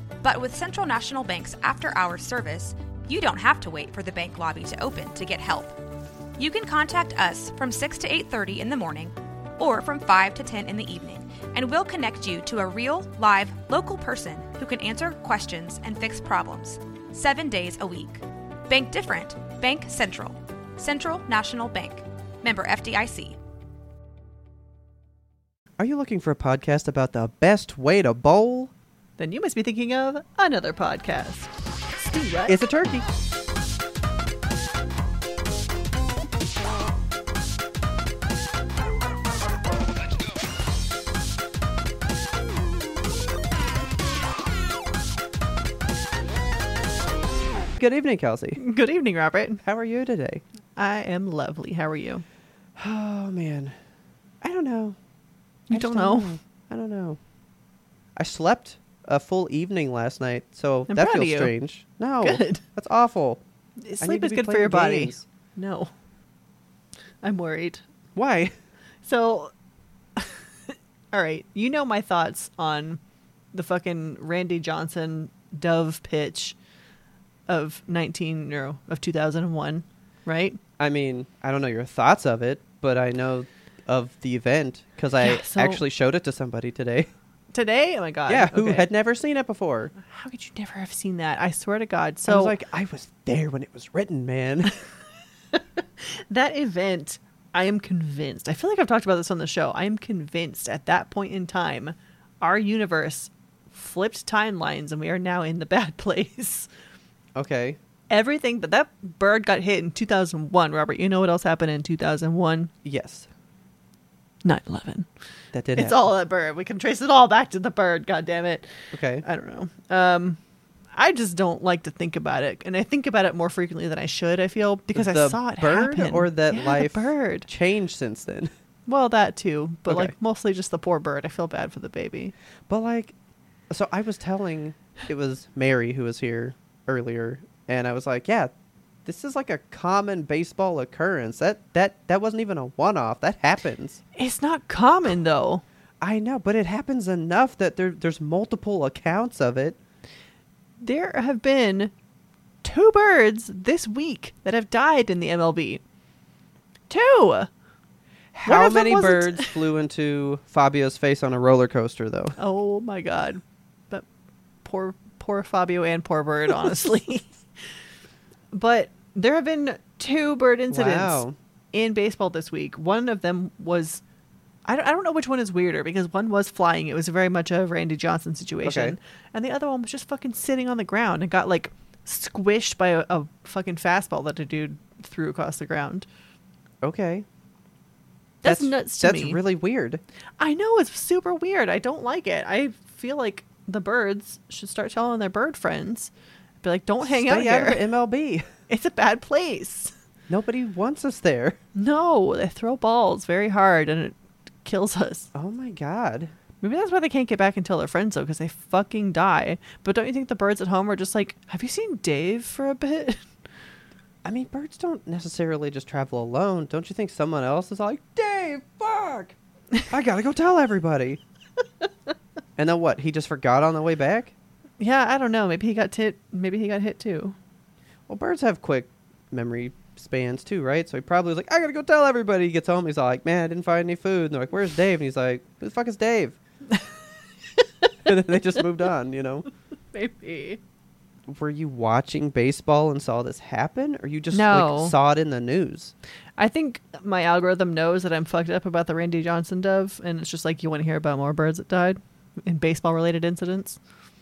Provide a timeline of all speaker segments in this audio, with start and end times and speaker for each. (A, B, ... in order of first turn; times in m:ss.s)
0:00.2-0:05.8 A
0:06.4-0:23.4 A
0:25.8-0:28.7 B
0:29.2-0:32.6 C
0:32.5-0:33.1 B
0:47.8-0:48.6 B
0:48.6-0:49.6 C
0:49.6-0:50.4 B
0:50.8-0:52.2 C
0:52.8-0:53.8 B
0:54.4-0:55.0 B
0:55.7-0:56.4 C
0:55.7-0:57.2 B
0:58.2-1:03.4 B
1:00.9-1:01.5 C
1:02.2-1:02.6 C
1:03.8-1:05.9 C
1:04.0-1:05.3 B
1:07.2-1:07.8 C
1:08.2-1:08.5 B
1:09.0-1:09.5 C
1:10.2-1:13.0 C
1:13.5-1:16.6 C
1:17.5-1:20.6 C
1:20.8-1:27.1 B
1:25.2-1:25.8 C
1:27.5-1:28.9 C
1:28.3-1:29.9 B
1:30.0-1:32.6 C
1:32.3-1:34.8 B
1:35.5-1:46.7 C
1:47.4-1:47.8 B
1:48.1-1:52.7 C
1:52.8-1:53.3 B
1:54.4-1:55.1 C
1:55.5-1:56.0 B
1:55.8-2:00.4 C
1:58.9-1:59.2 B
2:00.9-2:07.5 C
2:04.9-2:08.5 B
2:08.9-2:12.3 C
2:09.9-2:10.1 B
2:12.7-2:13.2 B
2:13.7-2:18.5 B
2:19.0-2:24.0 B
2:24.2-2:25.6 C
2:26.0-2:29.8 B
2:30.8-2:31.9 C
2:32.6-2:35.8 C
2:36.9-2:37.5 C
2:38.3-2:42.4 B
2:38.5-2:39.6 C
2:42.4-2:44.1 C
2:44.6-2:47.3 C
2:48.5-2:54.0 C
2:50.7-2:51.4 B
2:54.6-3:06.1 C
2:58.6-2:59.0 B
3:06.8-3:07.3 B
3:08.4-3:09.4 C
3:08.4-3:10.0 B
3:10.4-3:16.1 C
3:16.6-3:17.8 C
3:17.0-3:18.5 B
3:18.7-3:19.9 C
3:20.3-3:21.6 B
3:21.8-3:25.3 C
3:25.3-3:26.3 B
3:26.6-3:33.2 C
3:34.2-3:39.4 B
3:39.9-3:41.2 B
3:42.6-3:44.3 B
3:44.8-3:47.4 C
3:48.1-3:56.4 B
3:58.0-3:59.5 B
3:59.9-4:00.6 C
4:01.3-4:05.9 B
4:04.3-4:05.0 C
4:06.4-4:13.8 C